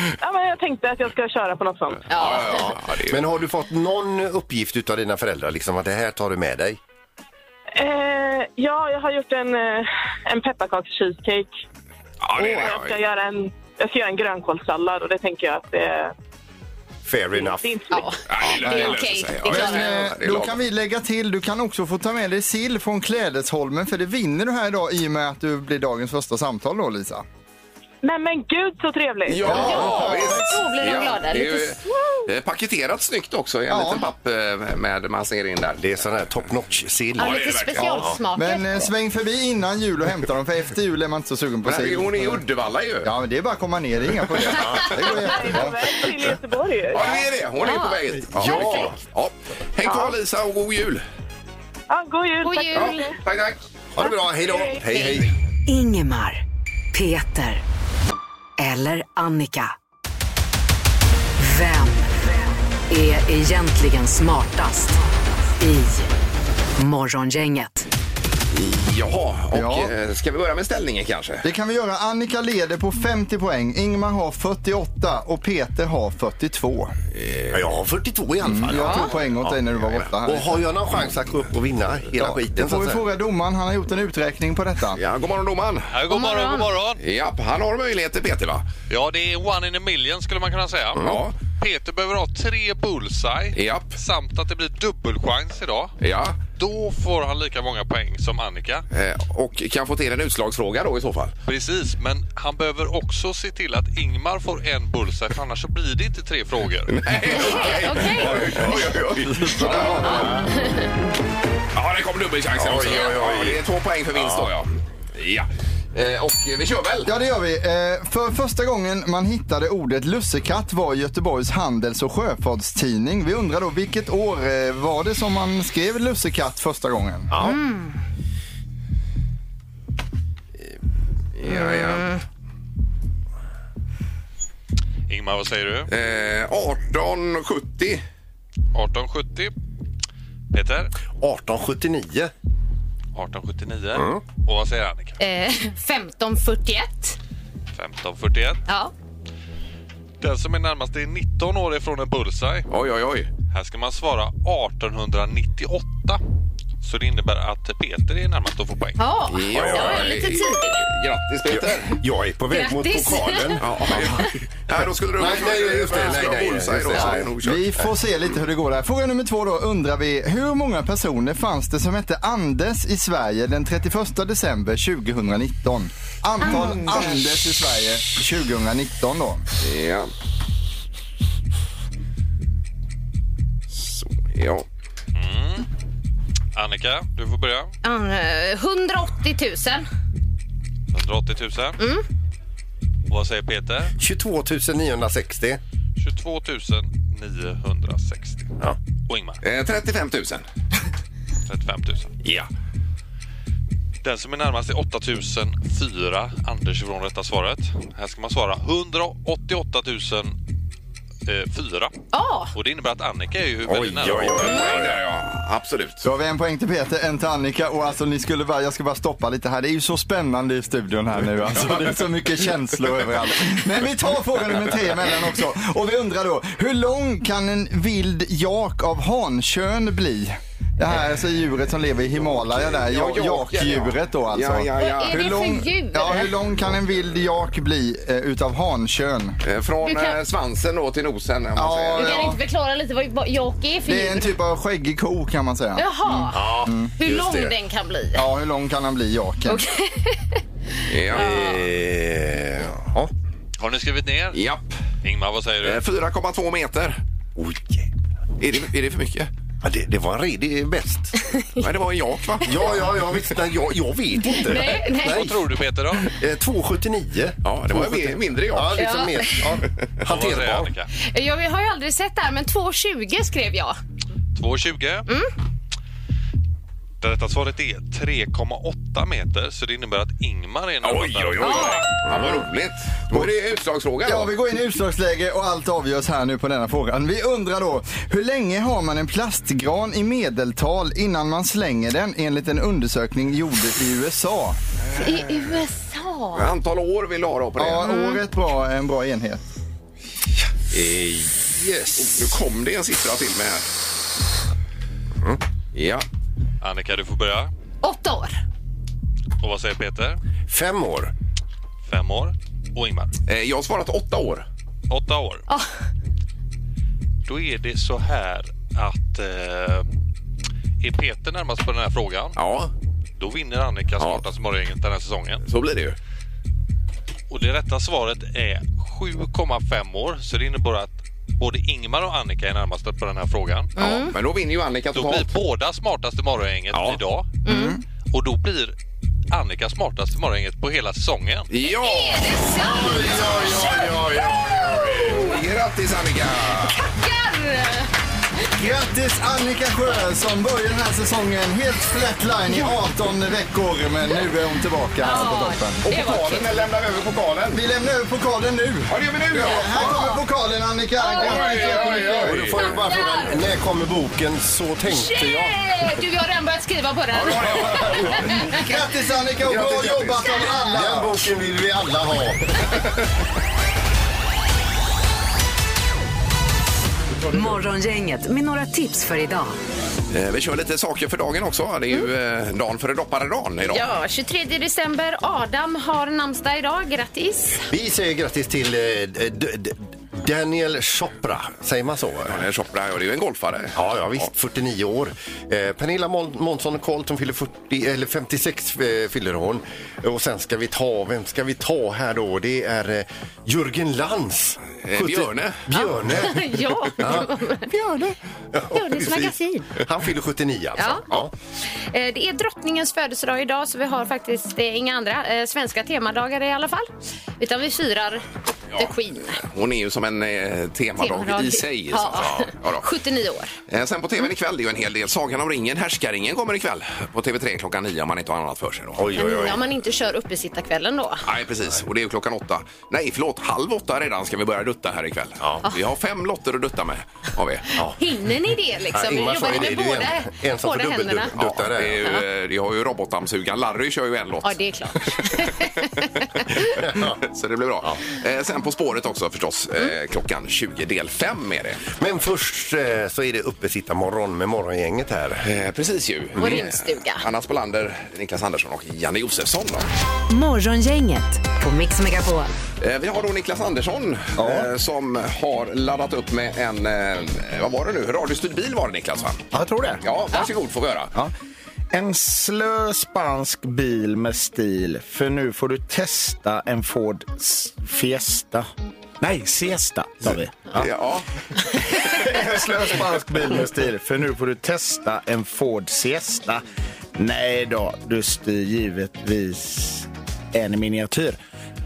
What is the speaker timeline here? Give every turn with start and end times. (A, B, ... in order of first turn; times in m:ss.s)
0:00.2-0:02.0 A
0:02.1-0:02.7 B
0:02.1-0:03.2 C
0:02.6-0:06.8 D
0:07.8-0:11.5 A
0:12.2-0:13.0 C
0:12.4-0:12.8 B
0:12.6-0:16.1 A
0:17.0-0:17.8 D
0:17.3-0:18.1 A
0:17.9-0:20.0 B
0:18.3-0:20.6 C
0:18.5-0:18.7 D
0:19.4-0:27.2 E
0:28.0-0:29.5 A
0:29.3-0:35.8 C
0:29.4-0:30.5 E
0:29.5-0:31.8 B
0:29.6-0:29.9 D
0:33.7-0:34.1 E
0:35.8-0:38.2 D
0:37.2-0:38.1 C
0:37.2-0:38.9 B
0:38.3-0:42.4 E
0:41.6-0:43.1 C
0:43.0-0:46.1 E
0:44.6-0:45.6 C
0:44.9-0:47.3 A
0:46.9-0:51.0 C
0:47.6-0:48.8 B
0:48.3-0:49.0 D
0:49.8-0:50.1 A
0:51.9-0:53.2 A
0:52.4-0:53.1 B
0:52.7-0:53.6 C
0:53.9-0:55.3 D
0:54.0-0:54.8 A
0:55.7-0:56.4 F
0:56.9-0:57.6 F
0:58.6-0:59.7 F
1:01.4-1:02.1 F
1:02.9-1:05.0 F
1:05.6-1:06.1 F
1:06.8-1:07.9 F
1:08.5-1:11.4 C
1:09.5-1:09.9 E
1:11.4-1:16.9 E
1:17.1-1:17.6 C
1:17.5-1:23.0 D
1:18.4-1:20.6 E
1:18.7-1:19.1 B
1:22.1-1:22.6 C
1:22.6-1:25.0 E
1:25.0-1:25.9 C
1:25.9-1:27.0 G
1:26.1-1:26.7 B
1:27.0-1:28.6 C
1:28.9-1:35.9 G
1:31.0-1:31.3 C
1:33.5-1:34.0 C
1:36.0-1:36.4 C
1:36.5-1:38.8 G
1:38.9-1:41.3 C
1:41.4-1:47.1 G
1:46.9-1:50.3 C
1:47.4-1:48.8 B
1:49.4-1:50.4 E
1:50.0-1:50.9 B
1:51.7-1:57.1 C
1:52.5-1:53.6 D
1:54.2-1:54.5 D
1:57.0-2:07.3 E
2:07.3-2:07.6 D
2:07.4-2:08.0 B
2:11.4-2:12.1 C
2:11.5-2:12.2 B
2:15.1-2:15.9 G
2:15.9-2:18.0 C
2:18.7-2:19.5 G
2:20.5-2:20.9 G
2:21.2-2:22.3 D
2:23.1-2:25.2 G
2:23.9-2:24.2 D
2:25.2-2:27.2 B
2:27.7-2:28.6 G
2:28.7-2:28.9 B
2:30.2-2:32.7 G
2:32.7-2:33.3 C
2:33.5-2:36.2 G
2:36.8-2:39.0 G
2:39.0-2:40.8 B
2:39.3-2:42.0 C
2:39.5-2:40.2 D
2:41.5-2:44.4 D
2:42.5-2:43.6 B
2:43.6-2:47.7 C
2:45.1-2:47.3 D
2:47.0-2:59.4 E
2:56.4-2:57.2 B
2:59.6-3:00.1 C
3:03.7-3:04.6 C
3:05.1-3:05.7 G
3:06.5-3:07.7 G
3:07.8-3:09.8 B
3:10.9-3:11.8 G
3:11.8-3:12.0 B
3:13.1-3:13.9 G
3:14.0-3:15.6 D
3:16.0-3:18.5 G
3:19.1-3:19.4 G
3:19.4-3:20.4 C
3:21.5-3:22.1 G
3:24.0-3:30.4 G
3:31.2-3:31.9 G
3:32.1-3:32.5 B
3:32.5-3:34.8 G
3:33.7-3:35.0 D
3:33.9-3:36.0 C
3:36.0-3:59.4 E
3:52.2-3:55.4 C
3:54.8-3:56.3 B
3:59.4-4:02.3 C
3:59.8-4:00.2 B
4:01.6-4:02.4 E
4:02.0-4:04.3 B
4:03.9-4:06.9 E
4:05.8-4:08.2 B
4:06.3-4:07.6 D
4:08.2-4:09.6 E
4:09.5-4:10.4 B
4:10.9-4:11.6 C
4:11.1-4:11.6 B
4:11.1-4:13.1 D
4:13.6-4:14.4 G
4:14.3-4:14.7 C
4:15.0-4:15.8 G
4:15.6-4:17.0 C
4:17.4-4:17.9 D
4:18.4-4:19.3 C
4:19.6-4:21.1 D
4:21.2-4:21.6 B
4:21.6-4:22.8 C
4:22.4-4:30.7 D
4:24.2-4:25.3 B
4:24.9-4:26.1 G
4:27.4-4:28.8 C
4:28.8-4:29.4 B
4:30.0-4:30.9 G
4:30.9-4:33.8 B
4:34.3-4:35.1 G
4:37.0-4:41.9 G
4:40.8-4:44.3 C
4:41.4-4:41.8 B
4:42.1-4:42.4 D
4:44.0-4:54.6 E
4:55.0-4:55.5 C
4:55.0-4:56.4 B
4:56.3-4:57.9 C
4:57.6-4:59.4 E
4:57.8-4:58.2 B
5:00.7-5:02.3 D
5:02.0-5:03.7 C
5:05.7-5:06.0 C
5:06.6-5:07.5 G
5:07.8-5:08.4 B
5:09.4-5:10.2 G
5:10.5-5:11.1 D
5:11.8-5:13.1 G
5:13.3-5:14.4 C
5:14.9-5:15.4 G
5:15.5-5:15.8 B
5:17.2-5:19.8 G
5:20.8-5:22.4 G
5:22.4-5:22.7 C
5:23.2-5:25.4 G
5:24.0-5:24.2 C
5:25.4-5:26.0 C
5:27.3-5:33.7 G
5:33.8-5:34.1 B
5:33.8-5:35.3 C
5:34.9-5:37.4 G
5:36.7-5:37.0 C
5:37.4-5:37.8 B
5:37.4-5:37.8 E
5:38.1-5:38.7 G
5:39.3-5:41.5 G
5:41.5-5:43.7 C
5:41.6-5:45.4 B
5:42.6-5:45.3 D
5:45.0-5:46.8 C
5:46.7-5:47.9 B
5:48.6-5:55.8 E
5:55.0-5:56.5 B
5:55.8-5:57.6 C
5:57.5-6:02.5 E
5:58.9-5:59.9 C
5:59.7-6:00.2 B
6:01.0-6:03.4 B
6:01.1-6:02.8 C
6:01.9-6:05.6 D
6:04.8-6:08.6 B
6:07.1-6:08.6 C
6:08.3-6:11.2 E
6:09.4-6:10.4 C
6:09.6-6:12.7 D
6:17.3-6:19.5 F
6:20.1-6:23.9 C
6:23.6-6:27.7 B
6:27.7-6:32.4 D
6:32.3-6:34.2 C
6:33.7-6:51.3 D
6:44.8-6:45.7 C
6:45.7-6:47.8 B
6:48.7-6:49.7 B
6:50.8-6:51.1 B
6:51.7-6:58.2 B
6:58.7-7:02.8 C
6:58.8-6:59.4 B
7:01.0-7:03.5 B
7:02.2-7:02.4 D
7:03.7-7:09.1 C
7:09.0-7:09.6 D
7:09.1-7:11.2 B
7:11.2-7:17.7 C
7:15.4-7:15.7 D
7:17.8-7:21.3 B
7:18.9-7:22.2 D
7:21.4-7:25.2 C
7:24.4-7:26.8 B
7:26.7-7:27.2 D
7:27.0-7:31.9 C
7:32.0-7:35.5 D
7:35.4-7:39.9 C
7:36.4-7:37.2 B
7:40.3-7:42.5 F
7:42.8-7:49.5 C
7:44.4-7:44.7 H
7:49.5-7:50.0 H
7:50.0-7:51.1 C
7:51.9-7:58.7 H
7:59.2-8:00.9 H
8:00.7-8:01.2 C
8:01.9-8:06.6 H
8:07.1-8:11.4 H